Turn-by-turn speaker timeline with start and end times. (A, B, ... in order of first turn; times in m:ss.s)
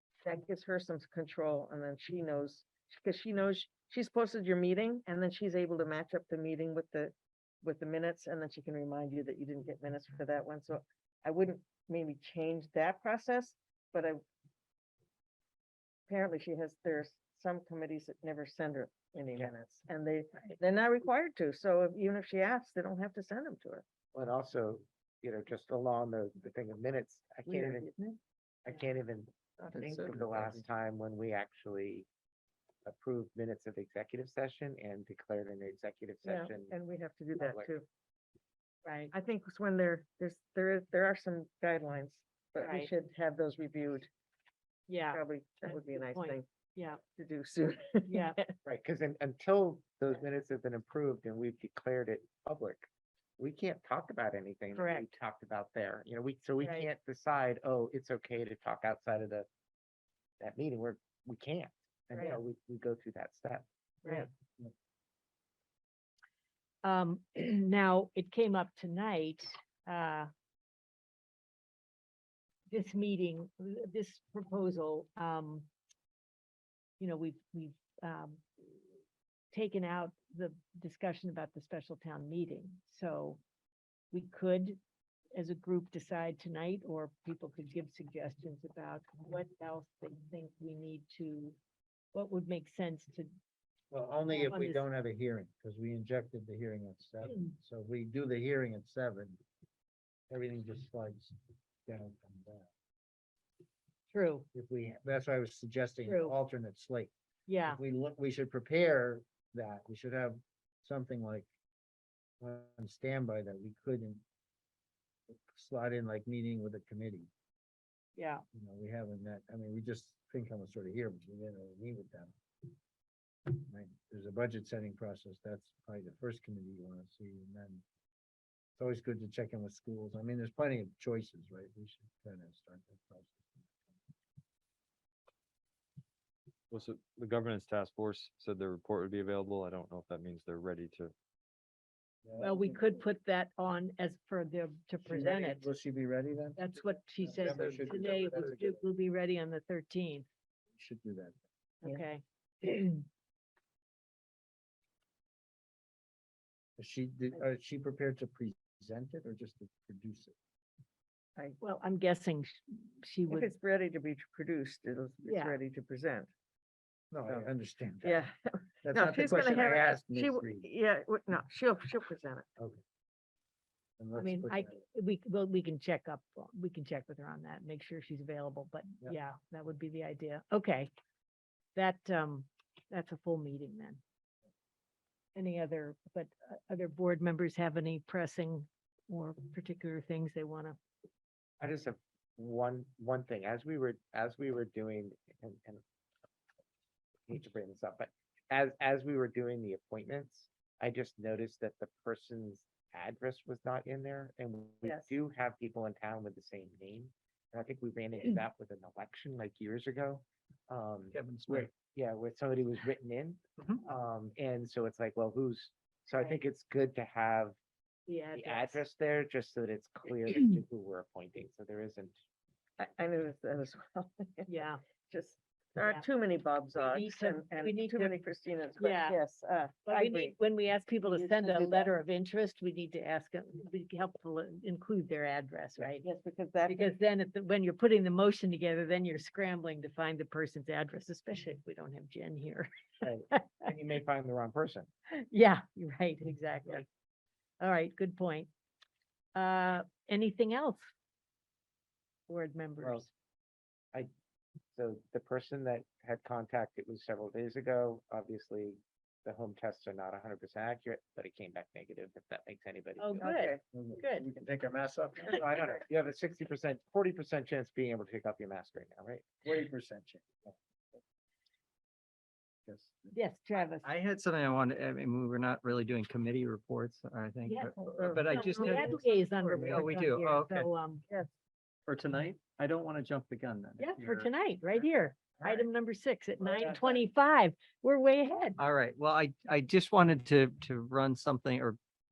0:00.2-0:14.2 A
0:16.1-0:23.9 A
0:24.1-0:27.9 B
0:27.5-0:27.8 A
0:28.6-0:32.1 B
0:29.7-0:30.6 C
0:32.8-0:36.8 B
0:36.2-0:37.9 A
0:37.4-0:37.7 B
0:38.8-0:39.1 D
0:39.1-0:44.1 A
0:42.6-0:42.9 D
0:44.9-0:47.0 D
0:45.1-0:46.4 A
0:47.0-0:48.5 A
0:48.0-0:48.4 D
0:48.6-0:52.9 B
0:53.4-0:59.5 B
0:54.7-0:55.1 D
0:56.6-0:56.9 D
1:00.4-1:04.3 B
1:06.8-1:10.3 D
1:12.7-1:15.7 D
1:17.0-1:18.4 D
1:19.5-1:23.4 D
1:24.1-1:24.8 D
1:25.4-1:31.6 D
1:32.1-1:33.3 D
1:33.9-1:39.4 E
1:34.3-1:34.8 D
1:40.3-1:41.3 E
1:41.9-1:42.7 E
1:44.1-1:44.5 D
1:44.5-1:47.1 E
1:46.0-1:46.3 D
1:47.5-1:47.8 D
1:47.6-1:51.5 E
1:52.4-1:54.2 E
1:55.3-1:57.3 E
1:58.2-1:58.4 D
1:58.5-2:02.3 E
2:03.5-2:07.8 E
2:08.8-2:14.0 E
2:16.7-2:21.1 F
2:22.2-2:23.0 E
2:22.4-2:25.7 D
2:25.0-2:28.8 E
2:26.6-2:30.2 D
2:30.7-2:31.4 E
2:31.8-2:33.0 D
2:36.8-2:40.3 E
2:41.6-2:43.5 D
2:43.3-2:46.3 A
2:45.2-2:45.6 D
2:47.1-2:48.2 E
2:48.0-2:52.5 A
2:48.8-2:50.6 E
2:54.0-2:54.8 E
2:54.1-3:00.9 D
3:01.7-3:04.0 D
3:05.3-3:10.8 D
3:11.6-3:15.8 B
3:17.3-3:37.6 B
3:24.8-3:25.2 A
3:31.1-3:31.7 C
3:36.1-3:36.4 D
3:38.1-3:38.8 D
3:38.3-3:42.1 B
3:42.8-3:50.4 A
3:44.5-3:44.8 D
3:45.8-3:46.1 D
3:46.7-3:48.2 D
3:48.8-3:49.2 D
3:49.8-3:56.0 D
3:51.0-3:51.9 A
3:55.9-3:56.9 A
3:56.7-4:03.5 D
4:03.0-4:04.9 B
4:05.2-4:06.8 D
4:07.6-4:08.5 D
4:09.4-4:10.9 D
4:12.3-4:13.1 D
4:14.7-4:23.3 B
4:23.0-4:24.3 D
4:23.2-4:23.6 A
4:23.7-4:25.6 E
4:25.3-4:29.3 B
4:29.4-4:30.4 E
4:32.6-4:33.1 E
4:33.1-4:33.9 D
4:33.8-4:40.7 C
4:37.4-4:41.0 D
4:37.8-4:39.8 A
4:41.8-4:44.3 C
4:43.8-4:48.6 D
4:48.6-4:51.8 C